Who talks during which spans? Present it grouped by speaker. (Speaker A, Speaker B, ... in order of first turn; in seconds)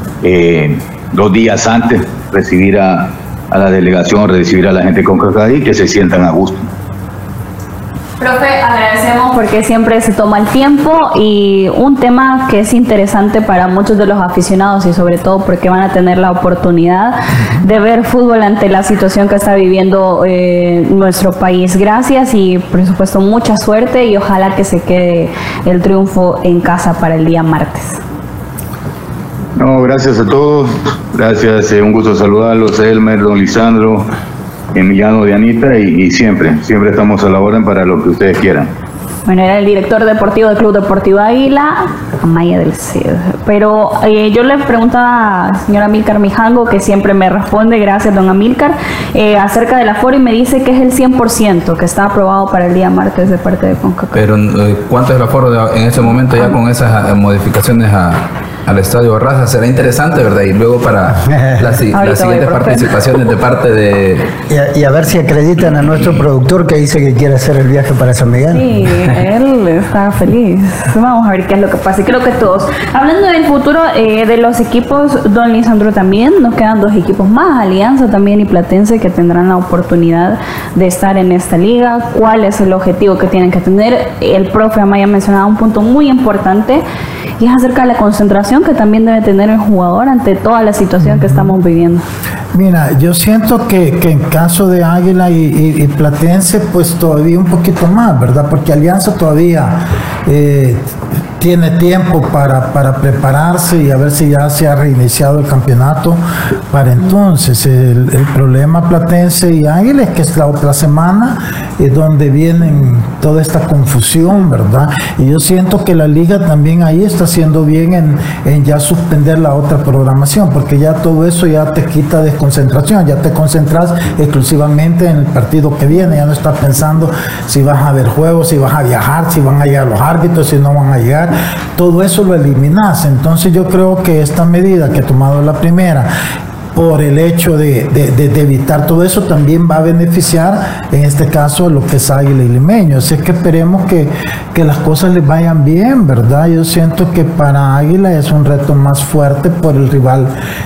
Speaker A: 0.2-6.7, 29.6-34.1, 34.7-38.7
Speaker B: 8.2-28.0, 39.2-54.2, 61.9-62.9, 68.5-86.8, 87.4-92.0
Speaker C: 54.1-64.2
Speaker D: 61.3-61.7, 64.5-68.7
Speaker E: 92.5-100.8, 101.4-136.1, 136.7-150.3